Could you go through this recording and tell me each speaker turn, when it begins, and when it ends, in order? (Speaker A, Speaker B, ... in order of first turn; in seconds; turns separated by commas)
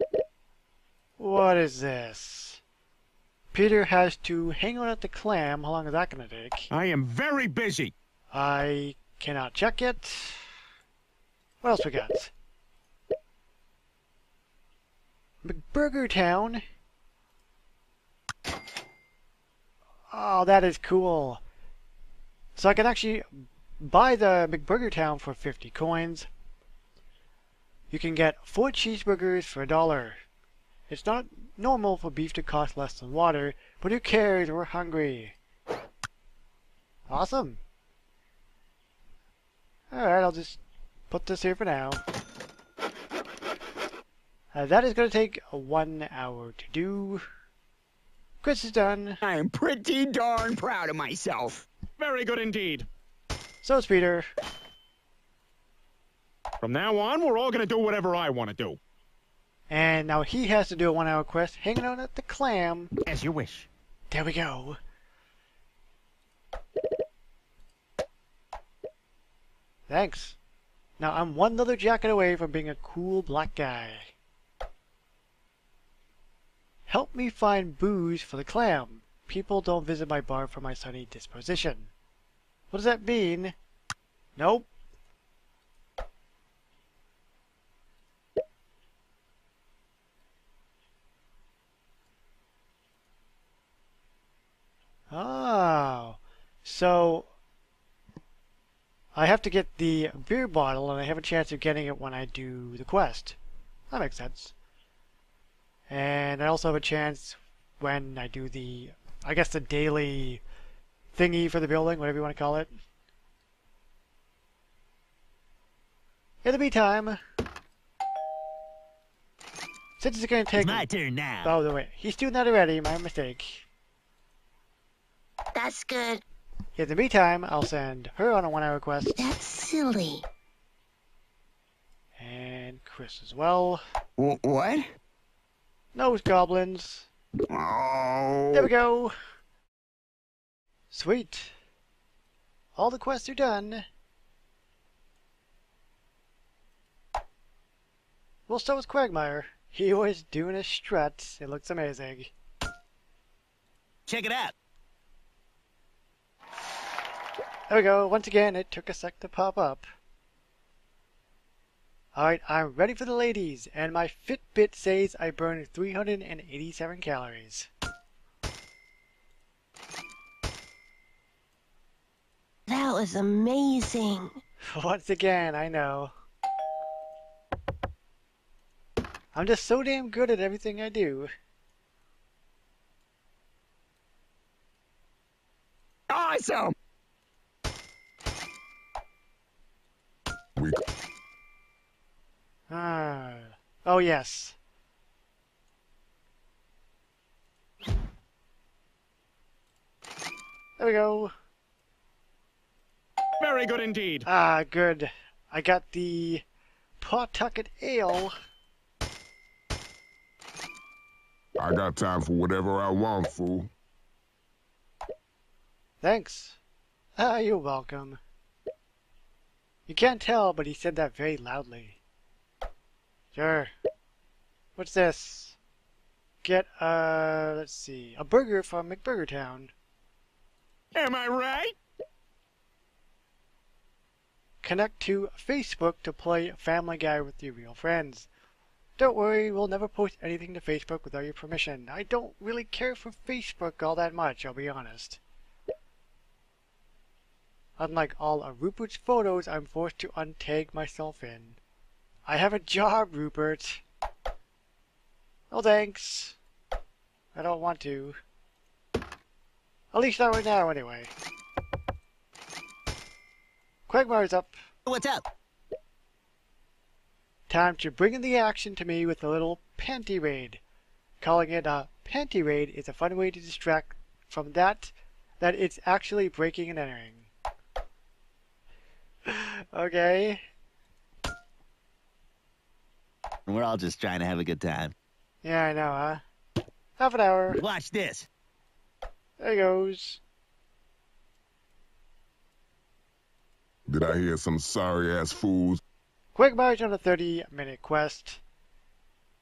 Speaker A: 1.2-2.6, Speaker A: 3.5-6.7, Speaker B: 6.7-7.9, Speaker A: 8.3-10.4, Speaker A: 11.6-12.3, Speaker A: 15.4-16.6, Speaker A: 20.1-21.4, Speaker A: 22.6-26.3, Speaker A: 27.9-30.2, Speaker A: 30.9-35.4, Speaker A: 37.1-37.6, Speaker A: 39.9-42.0, Speaker A: 44.5-47.2, Speaker A: 48.4-49.2, Speaker C: 49.2-51.7, Speaker B: 52.0-52.9, Speaker A: 53.6-54.3, Speaker B: 56.6-58.8, Speaker A: 59.7-62.9, Speaker B: 63.1-63.7, Speaker A: 64.1-64.8, Speaker A: 69.9-70.4, Speaker A: 71.0-74.1, Speaker A: 76.9-81.9, Speaker A: 82.7-83.6, Speaker A: 84.4-84.7, Speaker A: 95.1-97.3, Speaker A: 99.2-103.4, Speaker A: 103.9-104.5, Speaker A: 105.9-110.4, Speaker A: 111.1-112.7, Speaker A: 116.4-117.2, Speaker A: 120.0-120.9, Speaker D: 120.6-121.5, Speaker A: 121.4-123.7, Speaker E: 125.5-126.2, Speaker A: 126.8-129.3, Speaker E: 129.2-130.2, Speaker A: 132.2-133.8, Speaker C: 134.2-134.9, Speaker A: 135.9-137.1, Speaker C: 137.5-138.7, Speaker A: 138.5-139.2, Speaker A: 140.9-141.6, Speaker A: 142.8-143.8, Speaker A: 148.5-152.3, Speaker D: 154.1-154.5, Speaker A: 157.7-159.9, Speaker A: 162.2-167.7, Speaker E: 172.7-174.3, Speaker A: 174.7-176.1, Speaker A: 179.3-181.3, Speaker C: 186.1-186.7, Speaker A: 192.7-194.6, Speaker A: 200.8-201.3, Speaker B: 203.4-204.2, Speaker A: 204.2-206.4, Speaker A: 207.0-208.3, Speaker F: 211.6-213.7, Speaker A: 216.0-216.6, Speaker A: 217.2-218.2, Speaker A: 219.9-222.0, Speaker A: 223.3-223.7, Speaker A: 224.8-225.6, Speaker A: 226.4-229.7, Speaker B: 230.9-231.8, Speaker A: 234.6-238.3, Speaker A: 239.0-245.2, Speaker A: 247.8-251.6, Speaker A: 252.3-253.8, Speaker A: 255.5-256.4, Speaker A: 257.3-258.2, Speaker A: 259.9-261.1, Speaker A: 263.9-264.6, Speaker D: 264.9-265.2, Speaker A: 267.5-270.6, Speaker A: 271.2-277.3, Speaker A: 279.3-280.4, Speaker D: 283.5-284.9, Speaker A: 285.4-286.2, Speaker A: 287.0-287.6, Speaker D: 287.6-288.3, Speaker A: 289.4-290.2, Speaker F: 293.9-295.8, Speaker A: 296.3-298.4